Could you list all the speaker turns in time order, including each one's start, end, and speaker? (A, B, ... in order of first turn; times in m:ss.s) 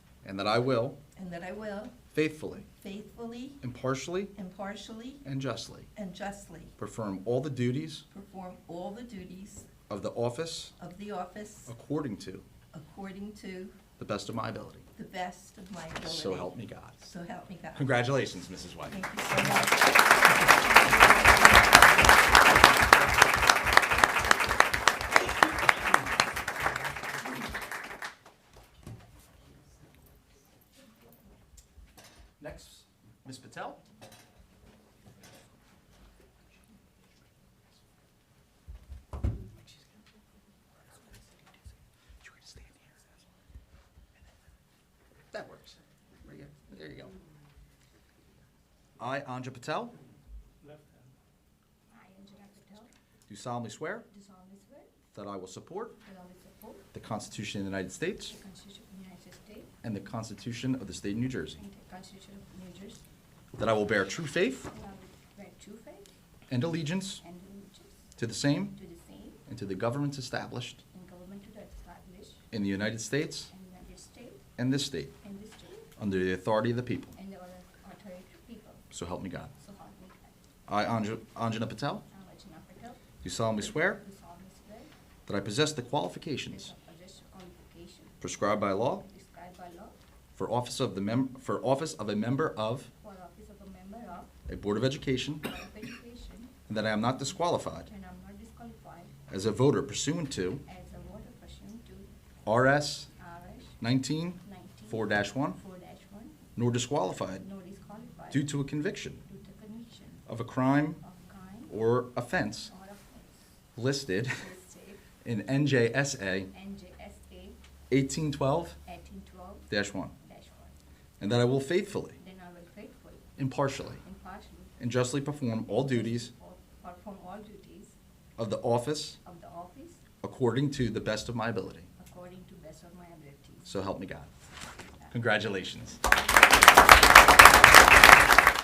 0:00.2-0:01.0 A
0:01.1-0:02.0 B
0:02.1-0:02.7 A
0:02.8-0:03.6 B
0:03.6-0:04.3 A
0:04.3-0:05.2 B
0:05.2-0:05.9 A
0:05.9-0:06.7 B
0:06.8-0:08.0 A
0:08.1-0:09.7 B
0:09.9-0:10.7 A
0:10.8-0:11.7 B
0:11.7-0:12.4 A
0:12.7-0:13.8 B
0:14.0-0:14.9 A
0:14.9-0:18.0 B
0:16.0-0:17.0 A
0:17.7-0:19.0 A
0:18.8-0:21.6 B
0:32.4-0:33.8 A
0:42.2-0:43.0 A
0:45.3-0:47.1 A
0:49.0-0:49.9 A
0:51.9-0:52.9 C
0:53.3-0:54.1 A
0:54.1-0:54.9 C
0:55.1-0:56.0 A
0:56.0-0:56.9 C
0:56.9-0:58.4 A
0:58.3-0:59.7 C
0:59.8-1:01.6 A
1:01.6-1:03.0 C
1:03.6-1:04.7 A
1:04.7-1:06.1 C
1:06.5-1:07.2 A
1:07.2-1:08.1 C
1:08.2-1:08.8 A
1:08.7-1:09.4 C
1:09.4-1:10.8 A
1:10.9-1:12.5 C
1:12.5-1:13.5 A
1:13.5-1:14.4 C
1:14.6-1:15.1 A
1:15.2-1:15.9 C
1:16.0-1:17.2 A
1:17.1-1:18.9 C
1:18.9-1:19.5 A
1:19.6-1:20.4 C
1:20.7-1:22.0 A
1:22.1-1:23.0 C
1:23.2-1:24.0 A
1:23.6-1:24.9 C
1:25.2-1:26.7 A
1:26.5-1:28.2 C
1:28.2-1:29.0 A
1:28.9-1:30.0 C
1:30.3-1:32.9 A
1:33.0-1:34.3 C
1:34.5-1:35.4 A
1:35.4-1:36.5 C
1:36.7-1:37.9 A
1:37.8-1:39.1 C
1:39.3-1:40.6 A
1:40.6-1:42.1 C
1:42.4-1:43.1 A
1:43.2-1:43.8 C
1:43.8-1:45.6 A
1:44.4-1:46.4 C
1:46.6-1:47.4 A
1:47.4-1:48.5 C
1:48.3-1:49.2 A
1:49.2-1:50.2 C
1:50.2-1:51.0 A
1:51.0-1:51.8 C
1:51.7-1:52.7 A
1:52.7-1:53.4 C
1:53.7-1:54.5 A
1:54.3-1:55.0 C
1:55.2-1:56.5 A
1:56.5-1:57.6 C
1:57.9-1:58.8 A
1:58.8-2:00.7 C
1:59.7-2:00.1 A
2:01.2-2:02.2 A
2:02.2-2:03.3 C
2:03.4-2:04.0 A
2:04.0-2:04.8 C
2:04.8-2:06.3 A
2:05.6-2:07.9 C
2:08.4-2:09.2 A
2:09.2-2:10.0 C
2:10.2-2:11.9 A
2:12.0-2:13.7 C
2:13.6-2:14.3 A
2:15.1-2:16.0 A
2:16.0-2:18.0 C